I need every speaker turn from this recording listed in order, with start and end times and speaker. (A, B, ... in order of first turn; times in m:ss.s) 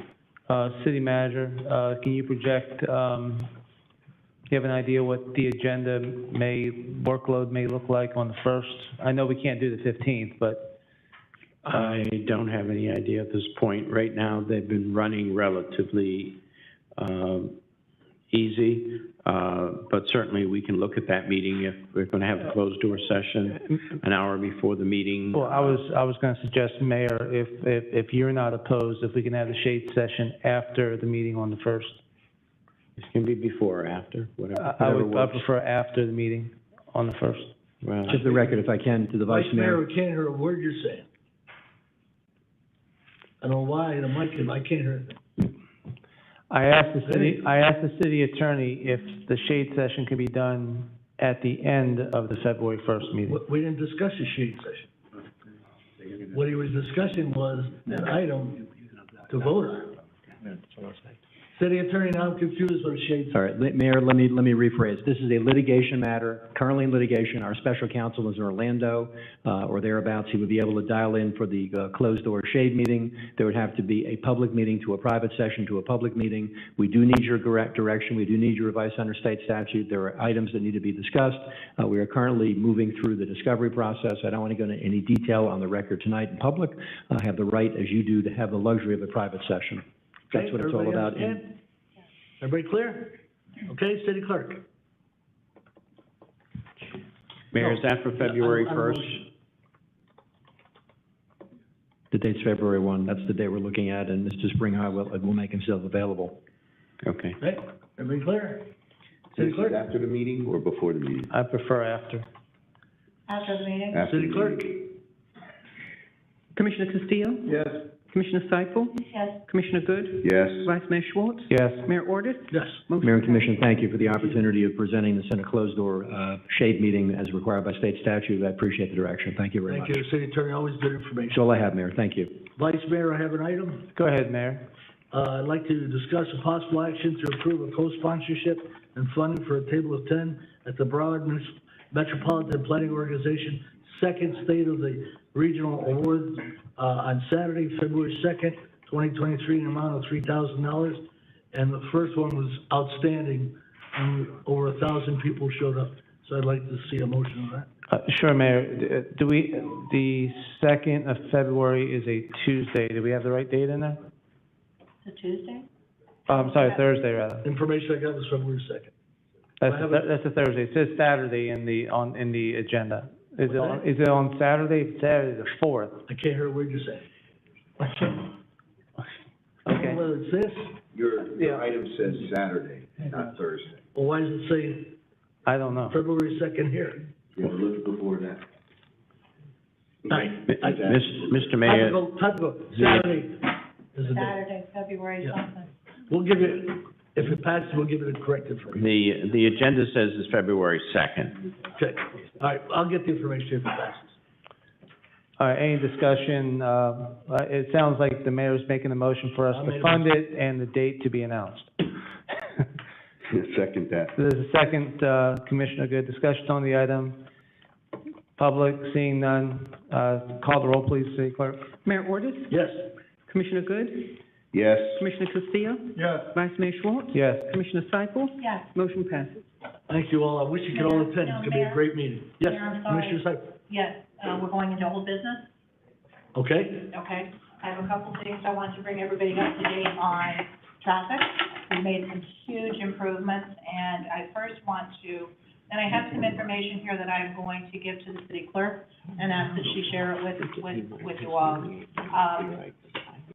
0:00.5-0:03.5 A
0:04.5-0:10.8 A
0:11.6-0:16.4 B
0:17.0-0:17.6 B
0:18.3-0:25.8 B
0:25.3-0:32.0 A
0:33.0-0:35.4 B
0:34.6-0:37.5 A
0:37.8-0:38.2 B
0:38.1-0:38.6 C
0:38.1-0:39.8 D
0:39.3-0:41.1 C
0:43.4-0:45.2 C
0:46.5-0:53.4 A
0:47.1-0:47.4 C
0:53.3-0:54.9 C
0:56.3-0:58.7 C
0:59.3-1:00.0 C
1:01.6-1:03.4 C
1:03.3-1:31.4 D
1:30.3-1:31.5 C
1:32.4-1:34.6 C
1:37.5-1:39.2 B
1:37.6-1:39.2 C
1:42.1-1:46.4 D
1:47.0-1:47.4 B
1:47.4-1:48.7 C
1:49.4-1:49.8 C
1:49.4-1:51.3 E
1:51.3-1:52.2 A
1:53.3-1:54.1 F
1:53.9-1:54.4 E
1:54.0-1:54.8 C
1:56.5-2:03.5 G
1:59.0-1:59.4 F
2:01.5-2:01.9 A
2:02.5-2:02.8 C
2:03.0-2:10.0 D
2:09.7-2:11.4 C
2:11.3-2:12.4 D
2:12.6-2:13.9 C
2:13.9-2:14.7 A
2:15.1-2:37.7 C
2:37.9-2:44.0 A
2:45.0-2:45.7 F
2:46.3-2:47.5 A
2:46.4-2:46.8 F
2:47.4-2:48.9 C
2:49.6-2:56.0 A
2:49.7-2:50.1 C
2:53.5-2:53.8 C
2:56.1-2:57.1 C
2:57.8-2:58.2 C
2:59.7-3:00.0 A
2:59.7-3:00.8 C
3:01.0-3:03.8 E
3:01.3-3:01.7 A
3:03.9-3:05.0 C
3:05.5-3:06.0 A
3:05.9-3:07.1 C
3:07.8-3:08.4 E
3:10.1-3:10.8 C
3:10.5-3:12.0 B
3:10.7-3:11.4 E
3:11.6-3:14.4 C
3:12.8-3:13.0 B
3:14.1-3:15.7 F
3:16.1-3:18.8 C
3:18.7-3:21.4 B
3:21.8-3:24.1 C
3:25.4-3:31.8 A
3:29.5-3:30.1 C
3:33.4-3:34.1 E
3:34.2-3:37.2 A
3:38.4-3:41.8 A
3:41.8-3:42.6 G
3:42.5-3:42.8 C
3:43.3-3:44.2 G
3:45.0-3:49.4 G
3:47.1-3:47.5 A
3:48.4-3:48.7 F
3:49.9-3:53.5 C
3:50.7-3:51.9 F
3:52.4-3:55.5 F
3:56.3-3:56.9 C
3:56.9-4:12.6 F
4:10.5-4:13.2 B